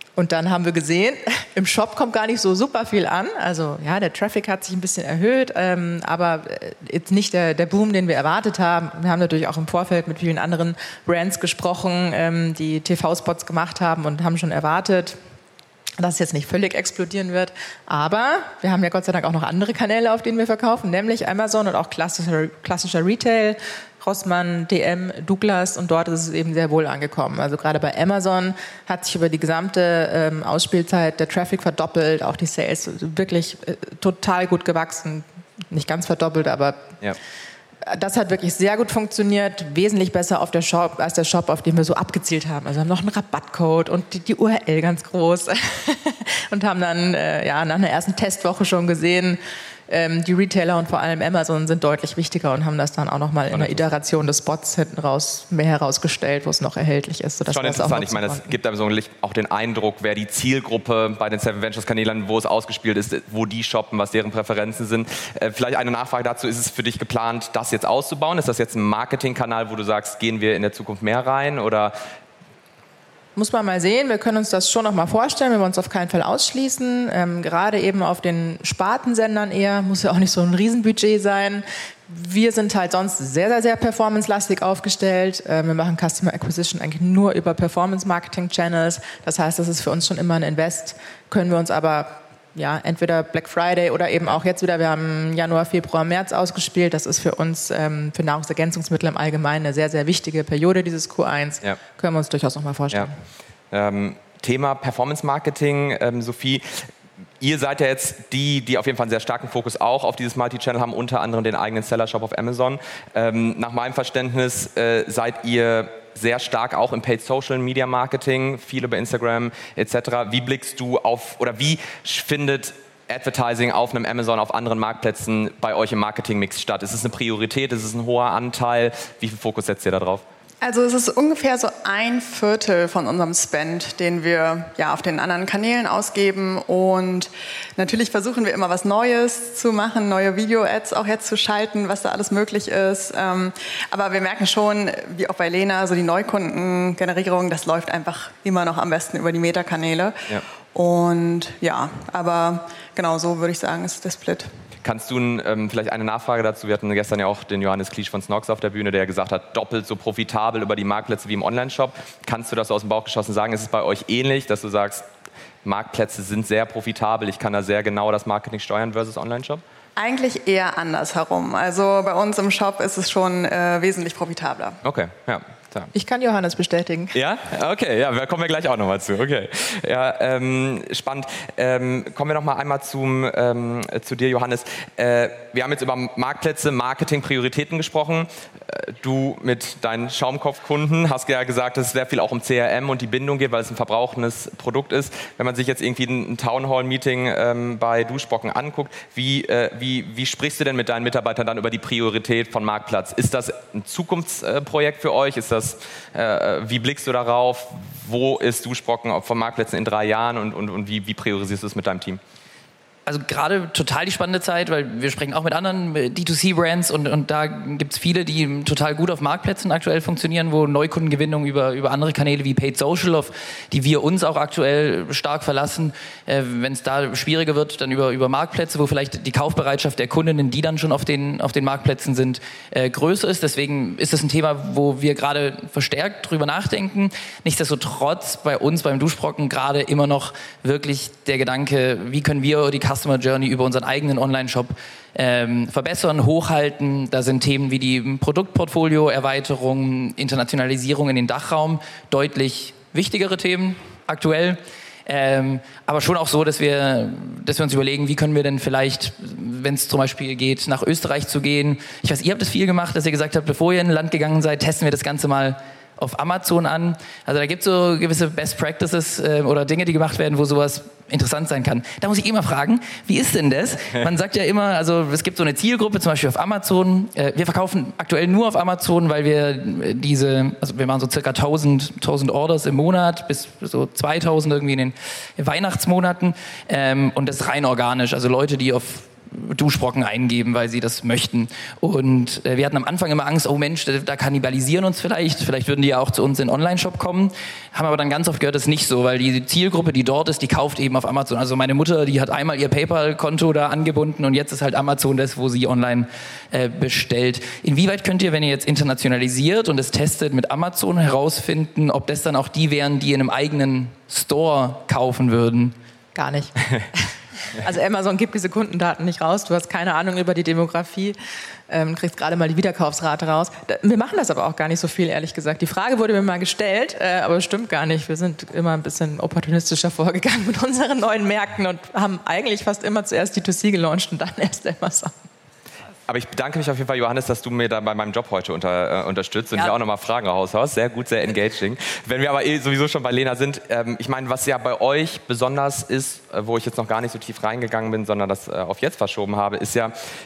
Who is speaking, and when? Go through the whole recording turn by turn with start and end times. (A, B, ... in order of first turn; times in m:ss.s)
0:00.2-0:15.2 A
0:16.0-0:36.9 A
0:37.8-0:58.6 A
0:53.5-0:53.8 B
0:57.5-1:11.9 B
1:13.4-1:43.1 A
1:43.7-1:46.9 B
1:47.4-2:10.2 B
2:10.6-2:34.5 C
2:34.8-2:45.0 B
2:45.6-2:49.6 B
2:50.0-2:54.8 C
2:54.8-2:55.9 B
2:55.9-2:57.2 A
2:57.1-3:32.2 B
3:33.0-5:15.7 D
5:16.1-5:21.2 A
5:21.7-5:35.1 A
5:36.1-5:49.9 B